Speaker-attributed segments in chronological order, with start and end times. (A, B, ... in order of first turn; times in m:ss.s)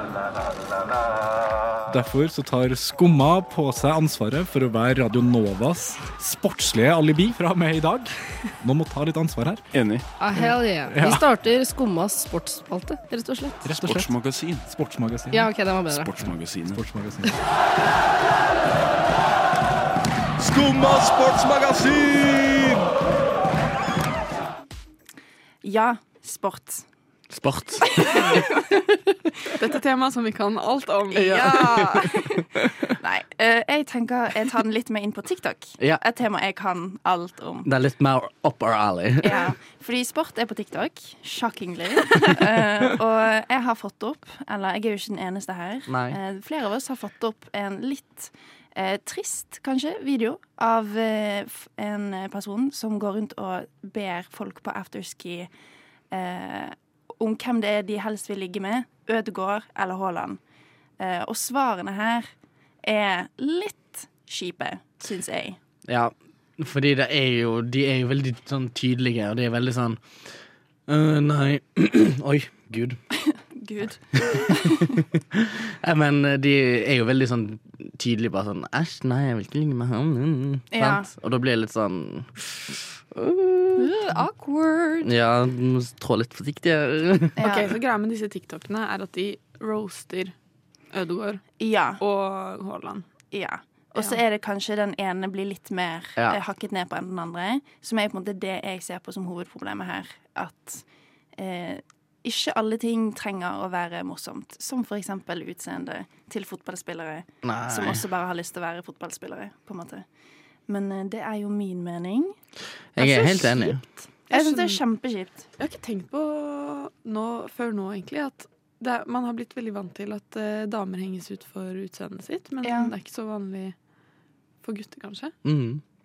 0:01.9-0:11.2 A
0:09.7-0:10.0 B
0:10.2-0:13.7 C
0:13.6-0:15.4 A
0:13.6-0:15.0 B
0:15.3-0:16.1 C
0:15.7-0:16.8 B
0:16.2-0:17.3 A
0:20.4-0:22.9 B
0:25.6-0:26.9 D
0:27.3-0:28.4 E
0:27.9-0:28.6 D
0:29.6-0:32.1 F
0:31.1-0:37.7 D
0:37.6-0:39.4 E
0:39.2-0:55.5 D
0:45.9-0:46.2 E
0:56.1-1:00.4 D
1:01.0-1:02.3 D
1:02.8-1:05.6 D
1:05.9-1:10.3 E
1:10.9-1:13.0 E
1:13.5-1:15.0 D
1:14.1-1:23.9 E
1:20.7-1:21.1 D
1:23.8-1:25.1 D
1:25.0-1:27.4 E
1:27.4-1:27.7 D
1:27.4-1:30.3 F
1:30.9-1:33.0 F
1:31.6-1:32.0 D
1:33.3-1:40.8 D
1:41.4-1:50.0 D
1:47.4-1:48.0 E
1:50.7-1:52.4 D
1:52.9-1:53.8 E
1:53.0-1:55.4 D
1:54.3-1:54.8 F
1:55.6-2:03.7 F
2:02.6-2:02.9 D
2:04.6-2:05.3 F
2:05.4-2:05.8 E